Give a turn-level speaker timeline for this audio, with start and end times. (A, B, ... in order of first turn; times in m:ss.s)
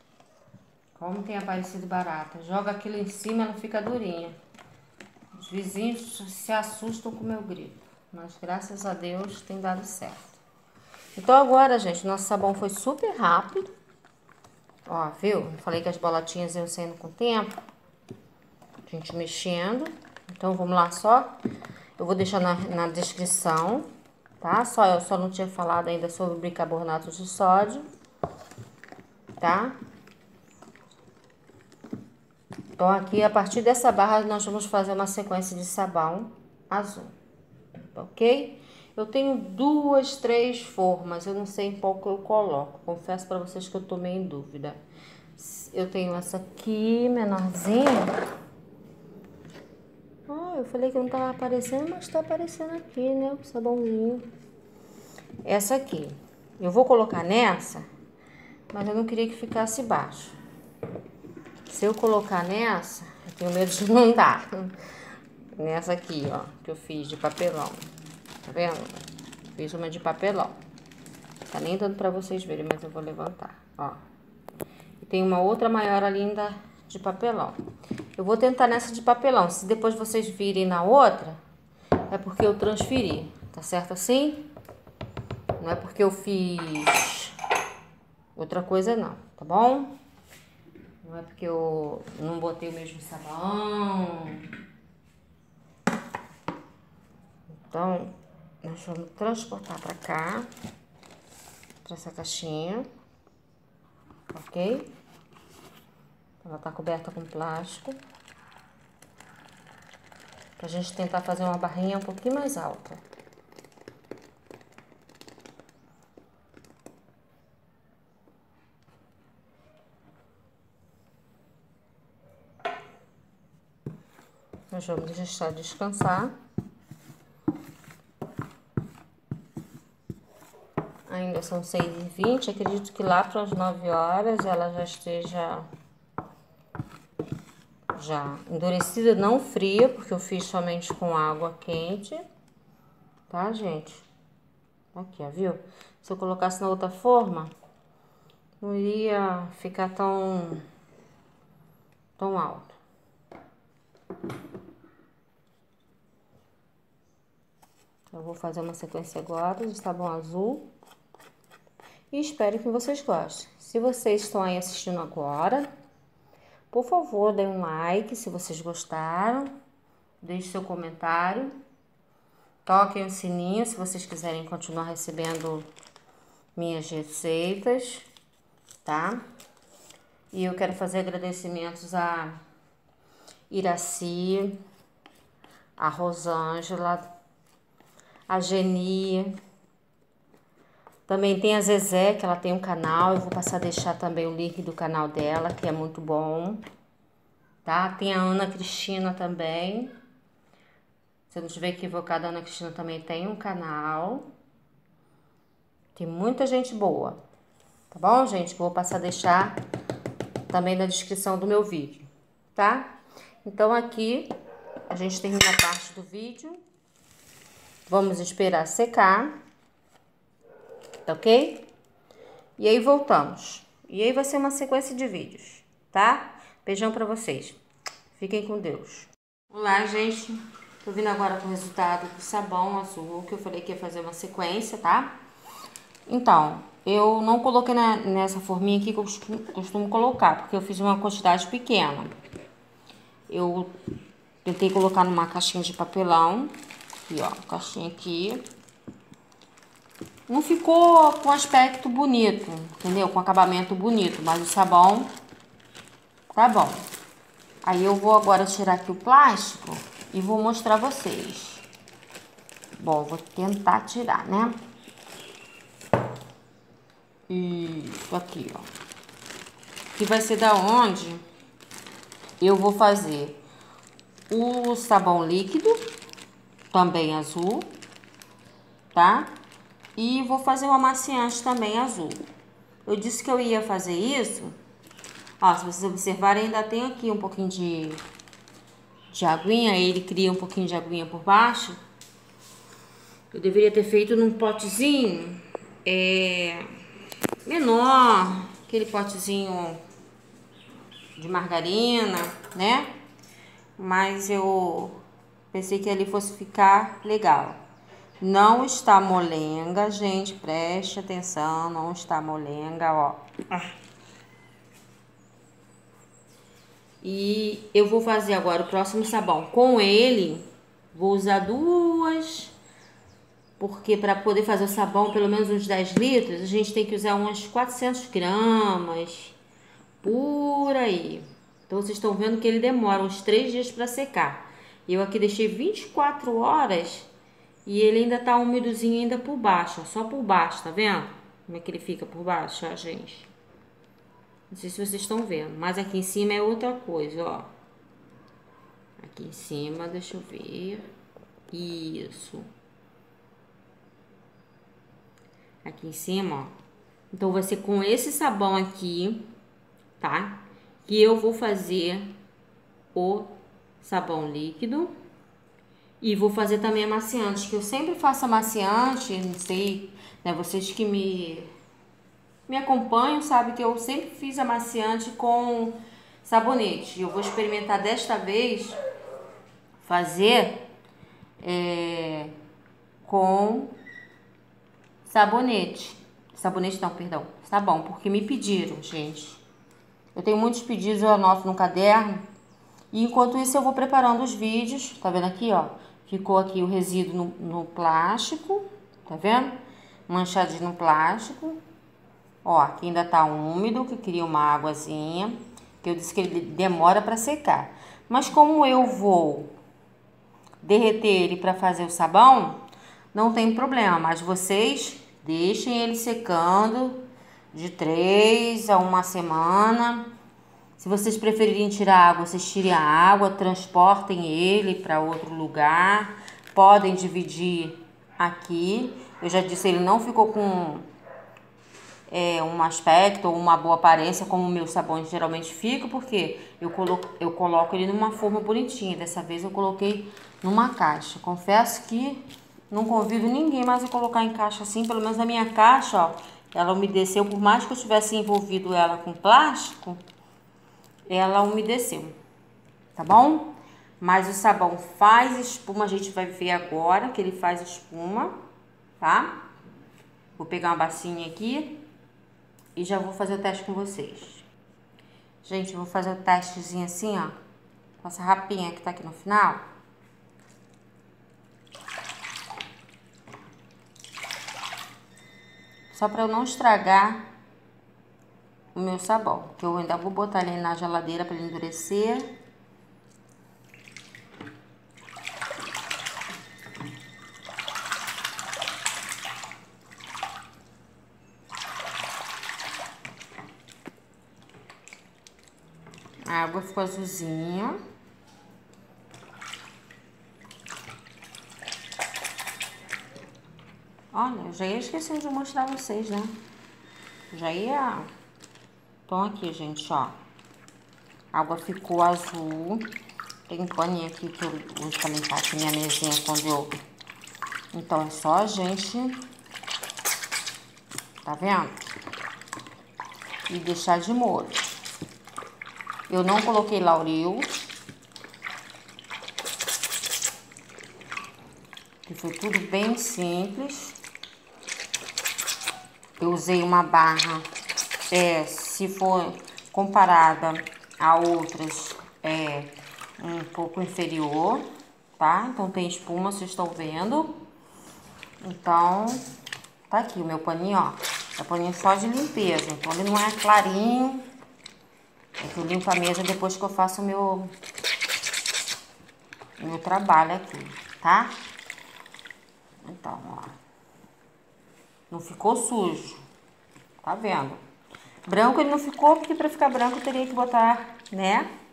0:01.0-0:04.4 A
0:05.4-0:10.4 A
0:11.2-0:13.7 A
0:14.9-0:17.6 A
0:18.8-0:21.3 A
0:22.0-0:23.9 A
0:24.4-0:27.9 A
0:29.4-0:29.8 A
0:32.8-0:37.1 A
0:37.9-0:44.8 A
0:45.4-0:48.2 A
0:50.3-0:54.3 A
0:55.4-0:57.9 A
0:58.7-1:00.4 A
1:01.7-1:04.8 A
1:05.6-1:07.8 A
1:08.4-1:10.6 A
1:11.5-1:14.0 A
1:15.0-1:17.6 A
1:18.2-1:21.4 A
1:22.1-1:24.5 A
1:25.6-1:27.4 A
1:28.4-1:29.9 A
1:31.0-1:34.5 A
1:37.6-1:40.5 A
1:41.8-1:42.9 A
1:44.3-1:44.9 A
1:46.4-1:48.0 A
1:50.6-1:53.0 A
2:04.7-2:06.3 A
2:11.1-2:15.7 A
2:17.9-2:22.2 A
2:23.3-2:24.1 A
2:24.9-2:27.5 A
2:28.6-2:30.6 A
2:32.2-2:32.8 A
2:38.1-2:40.7 A
2:42.1-2:45.7 A
2:46.7-2:49.5 A
2:50.2-2:51.5 A
2:52.6-2:55.7 A
2:56.6-2:58.1 A
2:58.8-2:59.2 A
3:00.3-3:02.4 A
3:03.5-3:04.6 A
3:05.8-3:07.1 A
3:08.3-3:09.3 A
3:11.1-3:16.6 A
3:17.6-3:19.9 A
3:21.3-3:24.3 A
3:26.0-3:27.2 A
3:27.9-3:29.6 A
3:30.5-3:32.9 A
3:33.4-3:34.3 A
3:34.9-3:36.6 A
3:37.9-3:39.3 A
3:41.1-3:41.7 A
3:42.6-3:47.6 A
3:48.2-3:55.1 A
3:56.1-4:02.1 A
4:03.3-4:03.8 A
4:04.4-4:08.5 A
4:10.3-4:15.1 A
4:16.4-4:16.9 A
4:17.6-4:21.7 A
4:22.8-4:24.6 A
4:27.3-4:28.7 A
4:30.0-4:31.2 A
4:32.4-4:33.4 A
4:34.3-4:35.9 A
4:36.7-4:37.7 A
4:38.9-4:39.3 A
4:40.0-4:42.2 A
4:42.9-4:44.6 A
4:45.4-4:48.0 A
4:49.1-4:51.8 A
4:53.3-4:56.7 A
4:57.4-4:59.8 A
5:01.2-5:02.9 A
5:03.8-5:05.0 A
5:05.5-5:07.6 A
5:08.2-5:13.7 A
5:17.0-5:22.5 A
5:23.6-5:29.4 A
5:30.0-5:37.1 A
5:37.6-5:43.3 A
5:44.5-5:47.5 A
5:49.0-5:50.9 A
5:51.5-5:52.5 A
5:55.6-5:56.6 A
5:57.1-5:59.3 A
6:00.0-6:02.2 A
6:02.9-6:05.0 A
6:06.0-6:11.5 A
6:12.5-6:18.8 A
6:19.8-6:20.6 A
6:21.4-6:22.3 A
6:23.0-6:23.7 A
6:25.0-6:29.4 A
6:30.1-6:32.3 A
6:32.9-6:41.6 A
6:42.4-6:49.5 A
6:50.6-6:52.6 A
6:53.1-7:00.1 A
7:00.8-7:10.9 A
7:12.1-7:30.0 A
7:31.1-7:32.2 A
7:32.9-7:38.4 A
7:39.0-7:39.4 A
7:40.4-7:41.8 A
7:42.8-7:44.5 A
7:45.4-7:47.4 A
7:48.0-7:49.6 A
7:55.9-7:57.2 A
7:58.7-8:02.3 A
8:16.3-8:17.8 A
8:24.1-8:26.3 A
8:27.3-8:28.1 A
8:29.1-8:30.2 A
8:31.3-8:32.9 A
8:33.5-8:36.8 A
8:37.7-8:39.3 A
8:41.2-8:41.8 A
8:43.5-8:44.8 A
8:46.1-8:47.5 A
8:52.1-8:54.0 A
8:56.2-8:57.5 A
8:58.1-9:07.5 A
9:08.4-9:09.2 A
9:09.9-9:14.3 A
9:15.4-9:17.5 A
9:19.6-9:21.4 A
9:22.8-9:23.6 A
9:25.1-9:26.2 A
9:27.0-9:27.6 A
9:28.3-9:31.5 A